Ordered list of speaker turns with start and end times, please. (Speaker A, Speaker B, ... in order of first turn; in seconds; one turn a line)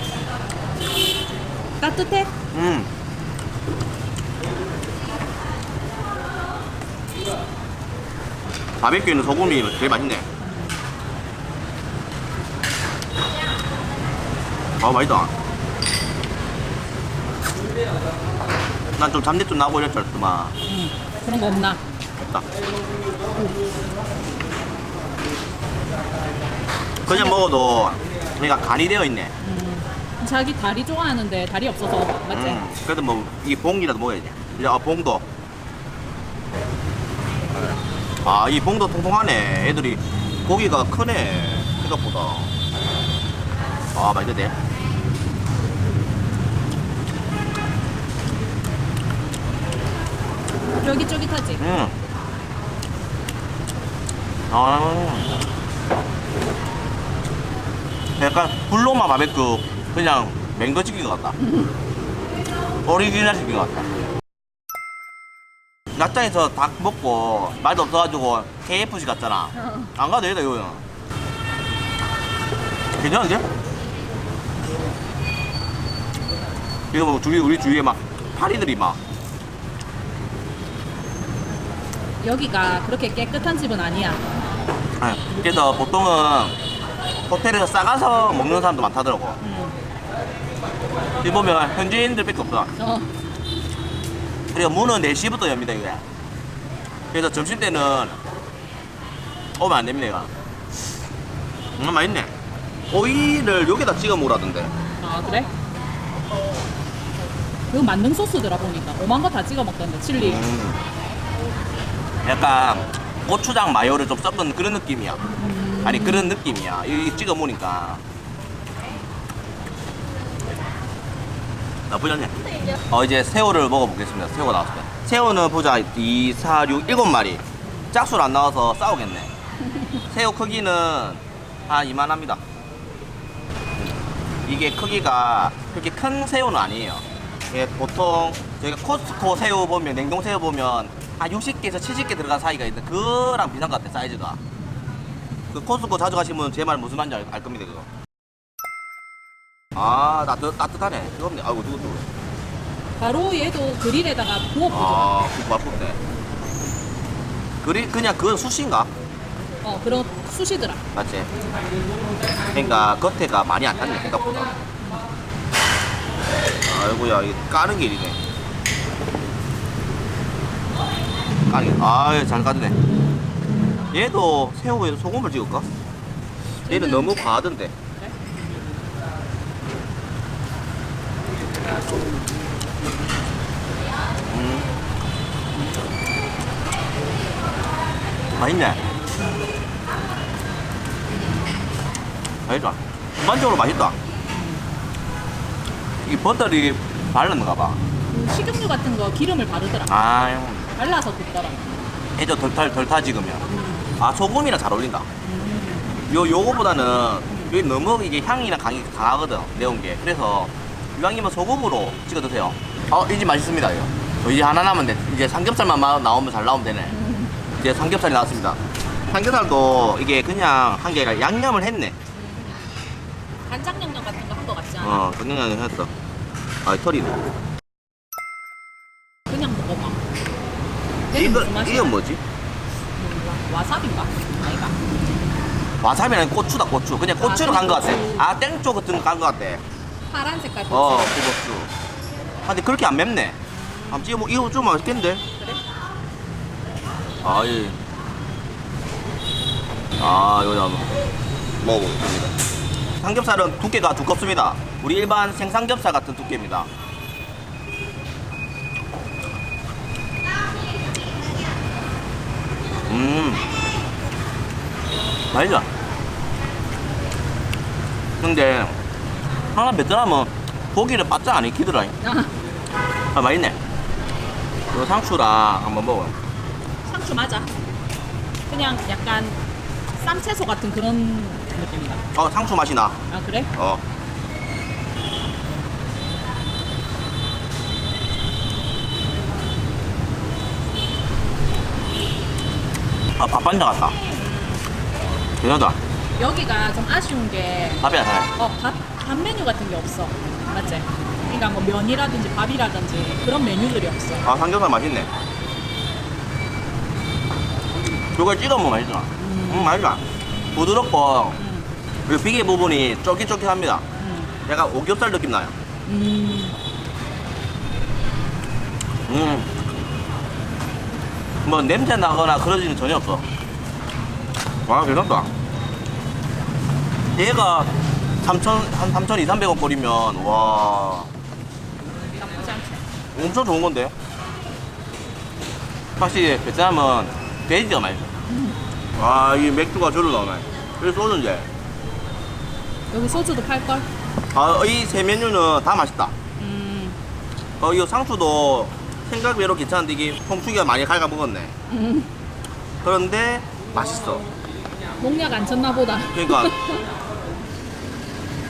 Speaker A: 1.8-2.3
Speaker B: 2.5-2.9
Speaker B: 8.8-10.3
Speaker A: 10.4-10.8
Speaker B: 14.8-15.3
Speaker B: 18.9-20.5
Speaker A: 20.6-21.8
Speaker B: 22.2-22.4
Speaker B: 27.0-29.3
Speaker A: 27.1-27.5
Speaker A: 29.4-32.6
Speaker B: 32.3-35.2
Speaker B: 38.2-42.5
Speaker B: 43.9-44.5
Speaker A: 50.8-51.6
Speaker B: 51.6-51.9
Speaker B: 54.5-55.3
Speaker B: 58.2-61.4
Speaker B: 62.8-63.9
Speaker B: 65.9-70.8
Speaker B: 73.0-73.5
Speaker B: 76.9-79.0
Speaker A: 82.2-84.2
Speaker B: 85.0-86.5
Speaker B: 87.3-89.4
Speaker A: 89.4-89.8
Speaker B: 91.2-92.7
Speaker A: 92.8-93.1
Speaker B: 94.5-96.0
Speaker B: 97.1-98.2
Speaker B: 99.6-100.3
Speaker B: 101.8-102.3
Speaker B: 102.9-104.7
Speaker A: 105.0-105.5
Speaker A: 107.7-110.4
Speaker B: 110.2-110.8
Speaker B: 112.2-115.2
Speaker A: 115.3-116.4
Speaker B: 115.8-118.0
Speaker B: 121.9-122.3
Speaker B: 122.9-129.3
Speaker B: 130.1-132.4
Speaker B: 134.4-144.4
Speaker B: 145.5-147.9
Speaker B: 149.7-152.1
Speaker A: 153.0-155.1
Speaker B: 154.7-156.0
Speaker B: 157.6-158.9
Speaker A: 159.6-160.8
Speaker B: 160.9-161.3
Speaker B: 162.5-164.5
Speaker B: 166.6-168.2
Speaker B: 171.5-172.8
Speaker B: 173.9-175.7
Speaker B: 176.6-177.7
Speaker A: 176.7-177.3
Speaker A: 178.0-178.2
Speaker B: 184.3-184.7
Speaker B: 188.3-188.8
Speaker B: 192.5-193.9
Speaker A: 194.3-194.6
Speaker B: 196.1-197.8
Speaker A: 198.1-200.0
Speaker B: 199.9-200.7
Speaker A: 200.8-201.7
Speaker B: 202.2-205.1
Speaker A: 203.5-203.9
Speaker A: 205.2-205.9
Speaker B: 206.1-216.9
Speaker A: 217.0-217.3
Speaker B: 217.5-218.6
Speaker B: 219.1-221.9
Speaker A: 222.1-222.7
Speaker A: 223.5-225.1
Speaker B: 224.8-225.9
Speaker B: 226.6-227.2
Speaker A: 229.3-230.0
Speaker A: 231.1-231.9
Speaker B: 231.1-232.2
Speaker A: 232.9-234.8
Speaker B: 235.8-239.6
Speaker A: 237.2-238.2
Speaker A: 240.1-241.2
Speaker B: 240.7-241.7
Speaker B: 242.4-243.4
Speaker A: 243.5-244.1
Speaker B: 243.9-245.2
Speaker A: 245.3-245.6
Speaker B: 247.2-247.8
Speaker B: 250.0-250.9
Speaker B: 251.6-252.3
Speaker B: 253.0-256.7
Speaker B: 262.9-263.4
Speaker B: 265.3-265.7
Speaker B: 268.2-268.8
Speaker B: 269.5-271.9
Speaker A: 272.0-272.3
Speaker B: 273.1-273.6
Speaker B: 274.7-276.1
Speaker A: 276.8-277.5
Speaker A: 278.5-279.4
Speaker A: 279.9-282.1
Speaker B: 282.1-283.0
Speaker A: 283.1-283.5
Speaker B: 283.5-283.8
Speaker B: 293.2-293.9
Speaker A: 294.1-294.6
Speaker B: 295.4-295.8
Speaker A: 296.1-297.8
Speaker B: 297.8-298.3
Speaker A: 298.4-304.2
Speaker B: 304.2-305.1
Speaker B: 308.1-310.0
Speaker A: 309.2-309.8
Speaker B: 310.5-311.4
Speaker A: 311.4-311.7
Speaker B: 312.1-313.8
Speaker A: 314.0-314.3
Speaker B: 314.4-315.5
Speaker A: 315.9-316.6
Speaker B: 319.1-319.5
Speaker B: 321.4-323.2
Speaker B: 324.6-325.3
Speaker B: 327.1-331.1
Speaker A: 332.1-332.8
Speaker B: 333.1-333.9
Speaker B: 336.0-338.1
Speaker A: 338.3-338.6
Speaker B: 338.9-341.5
Speaker A: 342.9-343.9
Speaker B: 344.3-346.1
Speaker A: 346.4-347.0
Speaker B: 347.6-351.6
Speaker A: 351.7-352.1
Speaker B: 352.8-354.3
Speaker A: 355.0-356.8
Speaker B: 356.1-356.6